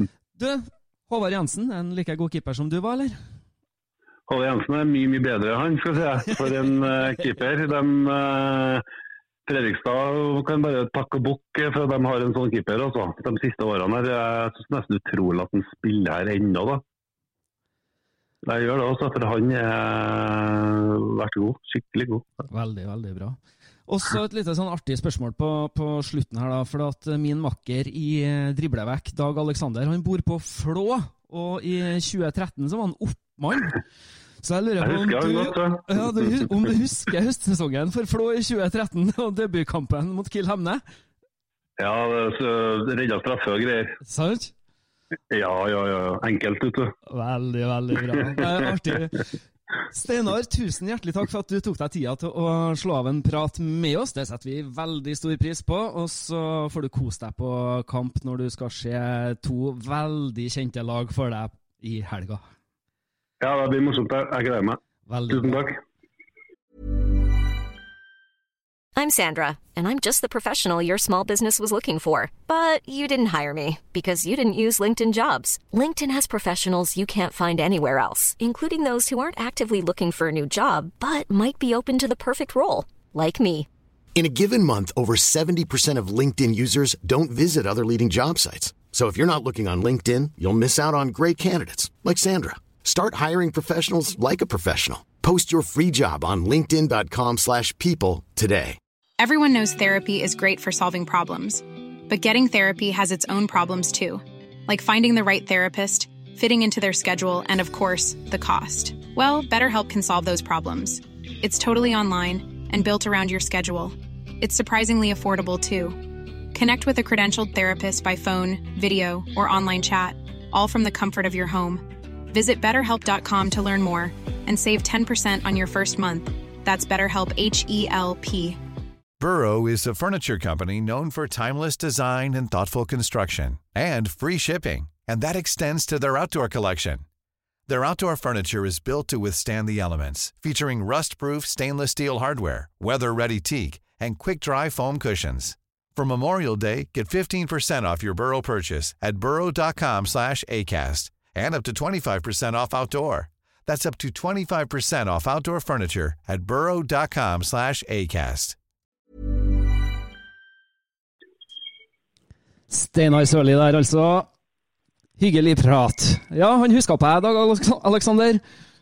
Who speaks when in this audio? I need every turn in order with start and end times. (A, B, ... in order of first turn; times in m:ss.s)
0:00.4-0:03.2 A
0:04.3-0:08.8 B
0:09.5-0:16.8 B
0:18.4-0:22.4 B
0:22.5-0:23.4 A
0:23.9-0:33.8 A
0:34.4-0:40.8 A
0:34.8-0:36.4 B
0:41.8-0:44.0 B
0:44.0-0:44.5 A
0:45.3-0:46.9 B
0:47.1-0:49.2 A
0:49.9-1:02.4 A
1:03.4-1:05.8 B
1:05.1-1:05.6 A
1:09.0-1:23.7 C
1:24.2-1:38.8 D
1:39.2-2:08.6 E
2:09.2-2:17.0 F
2:17.7-2:38.6 F
2:42.7-2:44.3 A
2:45.2-2:48.4 A